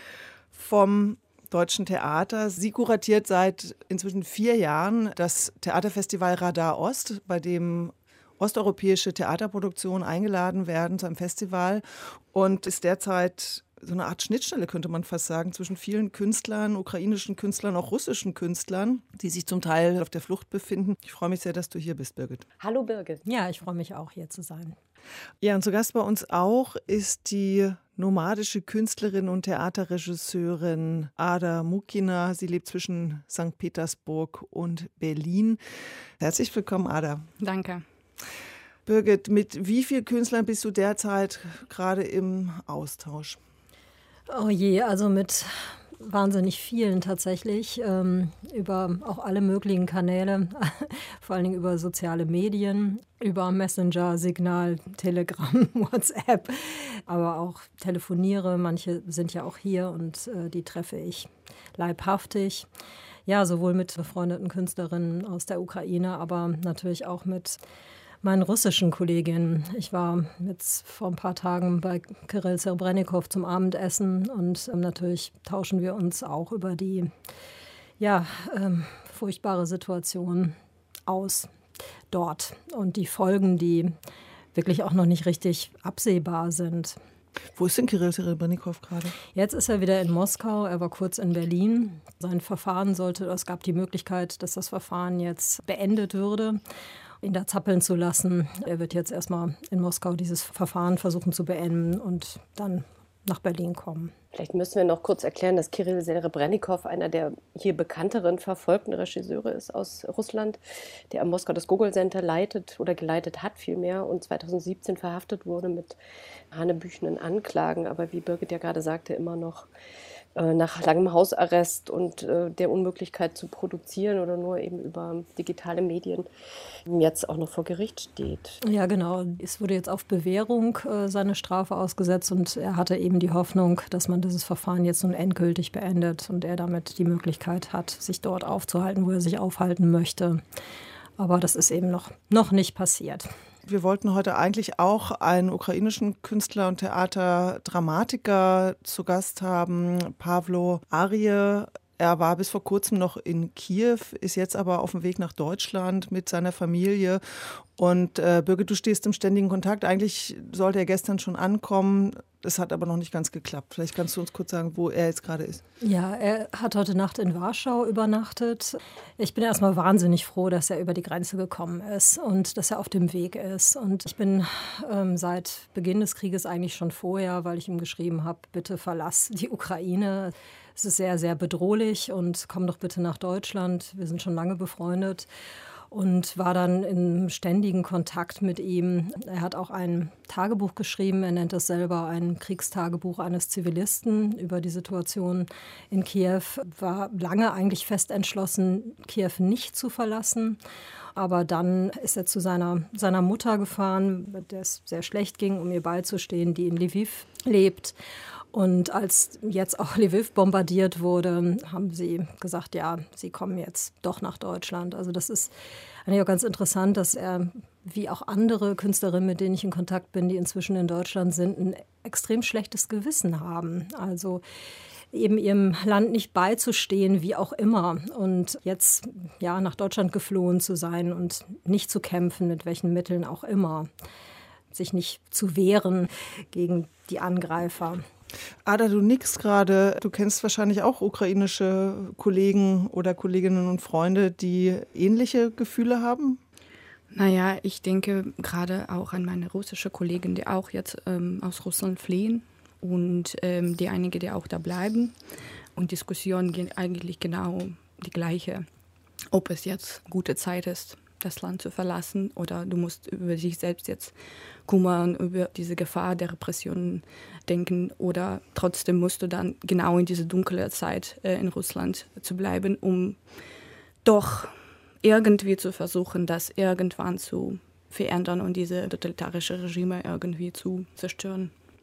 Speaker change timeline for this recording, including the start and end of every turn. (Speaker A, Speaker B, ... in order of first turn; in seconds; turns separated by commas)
Speaker A: 0.5-22.4, Speaker B: 22.6-23.2, Speaker C: 23.2-24.8, Speaker A: 25.4-35.6, Speaker A: 36.2-37.3, Speaker D: 37.4-37.8, Speaker A: 38.9-43.4, Speaker C: 44.3-62.7, Speaker C: 63.3-67.6, Speaker C: 68.2-77.1, Speaker C: 78.0-80.5, Speaker C: 81.1-81.5, Speaker C: 82.1-83.9, Speaker C: 84.5-87.0, Speaker A: 87.5-89.1, Speaker C: 89.3-96.6, Speaker C: 97.2-104.1, Speaker B: 104.3-110.6, Speaker B: 111.1-116.0, Speaker B: 116.5-119.7, Speaker B: 120.3-126.3, Speaker B: 126.9-128.6, Speaker C: 128.6-140.4, Speaker C: 141.2-143.3, Speaker A: 143.6-165.6, Speaker C: 165.8-185.3, Speaker C: 185.9-200.6, Speaker C: 201.2-207.9, Speaker C: 208.5-215.5, Speaker C: 216.1-224.4, Speaker C: 225.1-233.9, Speaker C: 234.7-238.0, Speaker A: 238.6-246.4, Speaker D: 247.1-255.1, Speaker D: 255.8-258.6, Speaker D: 259.3-264.1, Speaker D: 264.6-273.2, Speaker D: 274.0-281.5